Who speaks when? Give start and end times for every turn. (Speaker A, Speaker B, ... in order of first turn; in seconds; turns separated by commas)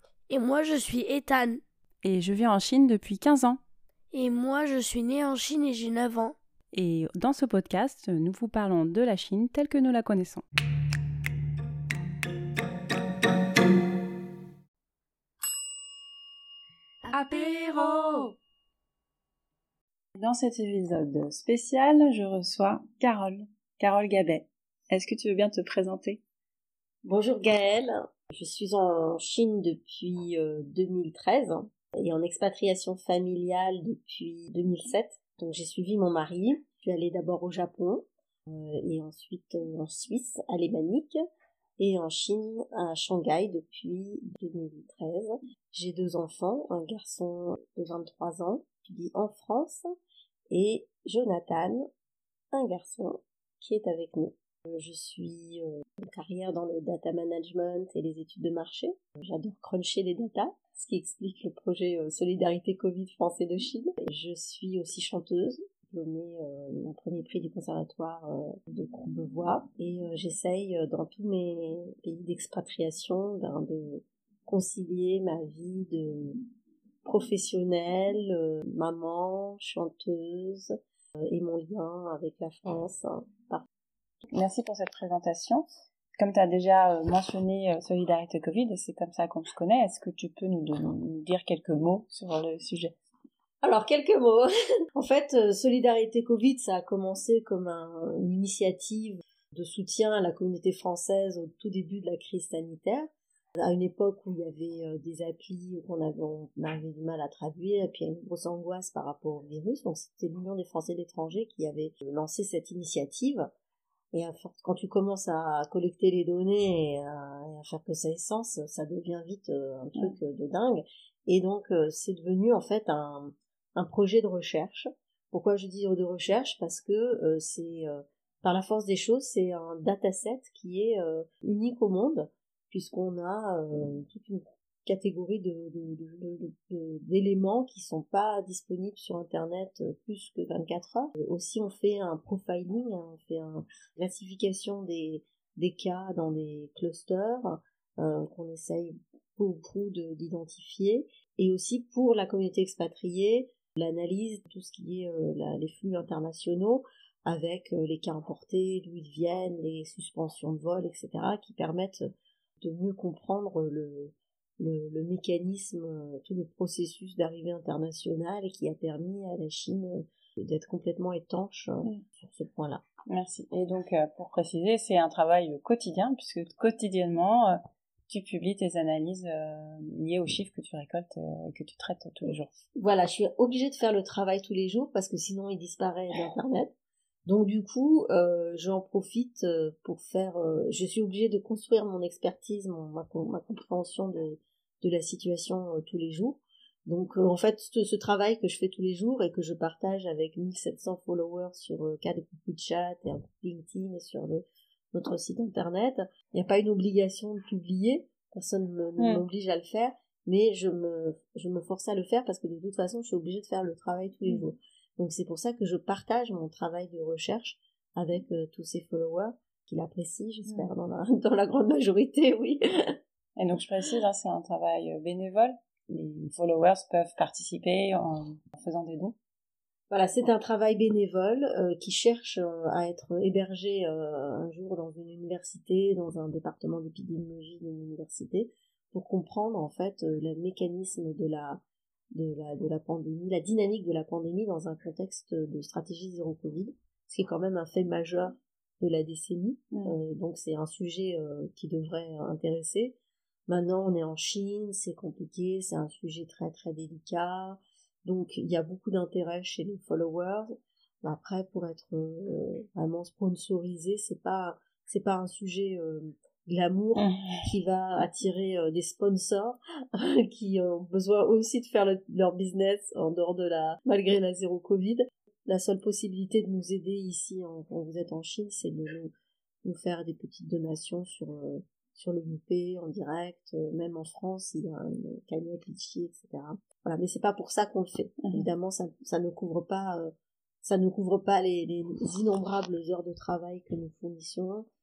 Speaker A: 0.3-1.6, Speaker B: 2.0-3.6, Speaker A: 4.1-6.3, Speaker B: 6.7-10.4, Speaker A: 17.1-18.2, Speaker B: 20.2-26.2, Speaker C: 27.0-41.2, Speaker C: 41.8-49.8, Speaker C: 50.5-51.9, Speaker C: 52.5-76.4, Speaker C: 77.0-80.7, Speaker C: 81.2-83.6, Speaker B: 84.3-93.0, Speaker C: 93.6-113.5, Speaker C: 114.1-172.8, Speaker B: 173.1-182.6, Speaker C: 182.8-186.7, Speaker C: 187.2-222.9, Speaker B: 209.0-209.2, Speaker B: 223.4-225.6, Speaker C: 225.9-226.3, Speaker B: 226.3-229.1, Speaker C: 229.9-241.6, Speaker C: 242.1-252.9, Speaker C: 253.5-279.1, Speaker B: 266.9-267.4, Speaker C: 279.6-290.1, Speaker C: 290.6-294.6